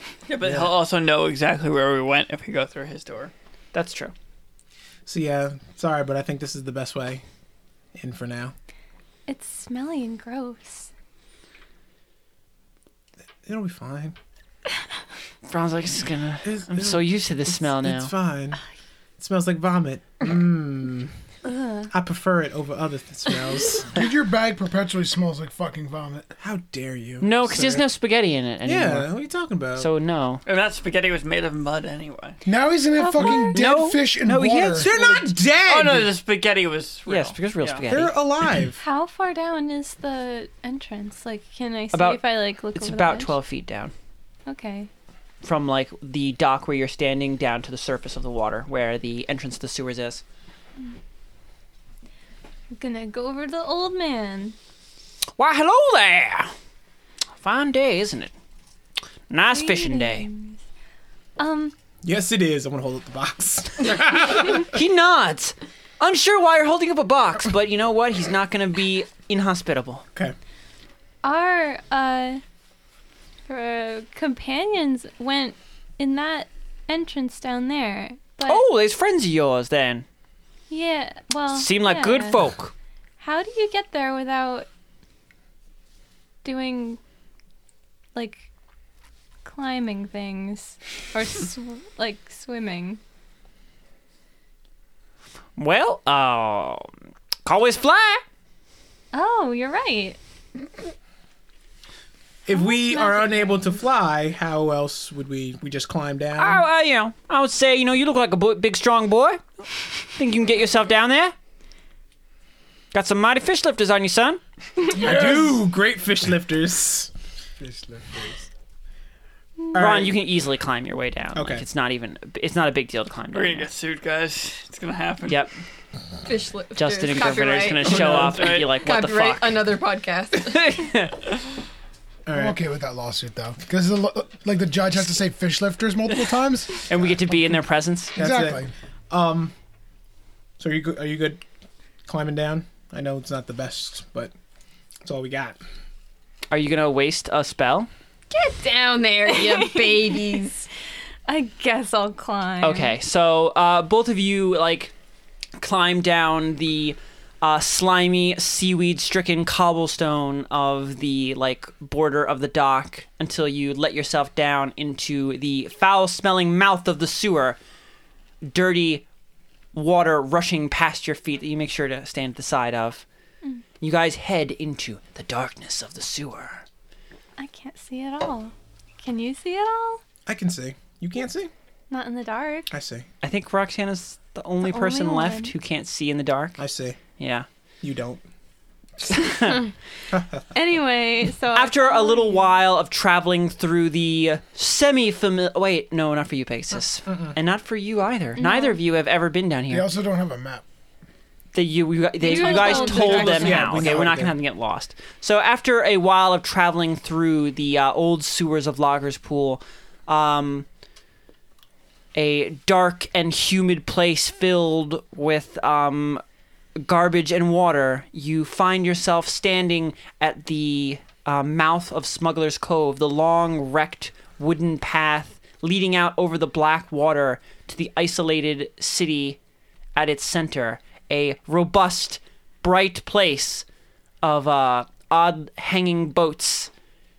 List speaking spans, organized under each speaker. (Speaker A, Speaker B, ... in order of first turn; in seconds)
Speaker A: 0.3-3.3, 30.5-32.4, 35.6-37.9, 123.3-125.5, 127.8-128.7, 202.4-203.6
Speaker B: 0.4-0.7, 5.1-7.2, 8.0-8.6, 13.4-14.2, 16.4-18.6, 19.2-21.1, 21.9-24.0, 26.4-27.9, 28.6-29.9, 34.8-36.1, 37.9-38.8, 62.0-64.8, 102.5-106.6, 114.9-117.1, 119.7-120.1, 121.3-121.6, 127.9-128.4, 132.3-132.6, 138.2-139.5, 140.6-141.4, 142.1-144.3, 145.0-145.6, 180.3-181.5, 182.7-183.1, 186.6-187.0, 187.8-188.2, 190.1-190.4, 197.1-197.3, 202.8-204.3
Speaker C: 3.7-4.1, 15.5-18.1, 27.2-29.1, 29.8-30.4, 33.2-34.9, 37.1-38.1, 41.9-42.2, 42.7-43.9, 45.4-50.2, 55.4-56.5, 57.4-58.3, 59.3-60.3, 64.7-70.0, 78.5-80.1, 81.5-82.7, 95.6-96.9, 97.5-98.2, 106.4-109.4, 110.2-111.3, 112.9-114.4, 119.8-123.7, 125.3-125.5, 126.8-129.7, 130.4-131.2, 136.9-138.2, 146.5-147.9, 152.6-154.9, 155.6-167.6, 168.5-169.1, 169.7-173.1, 173.8-176.7, 183.2-186.6, 187.2-187.5, 189.1-189.6, 191.5-199.9, 201.5-210.7, 212.1-216.2, 216.8-229.4, 229.9-233.7, 234.2-236.7
Speaker D: 9.3-10.9, 21.4-21.9, 33.0-33.6, 38.8-43.4, 44.5-44.9, 52.8-54.6, 59.5-60.6, 61.4-61.7, 71.2-72.4, 73.5-78.6, 80.7-82.5, 83.2-84.7, 86.4-87.0, 88.2-88.5, 89.4-93.0, 99.1-100.2, 102.5-103.7, 149.3-150.4, 151.3-153.0, 177.4-180.0, 181.9-182.7, 184.6-185.5, 189.4-189.7, 190.5-192.6, 198.4-198.8, 202.2-204.0
Speaker E: 23.9-26.3, 32.5-35.0, 114.9-115.6, 117.6-118.5, 132.3-137.6, 138.2-138.7, 199.7-200.6
Speaker F: 126.3-130.8, 148.3-150.7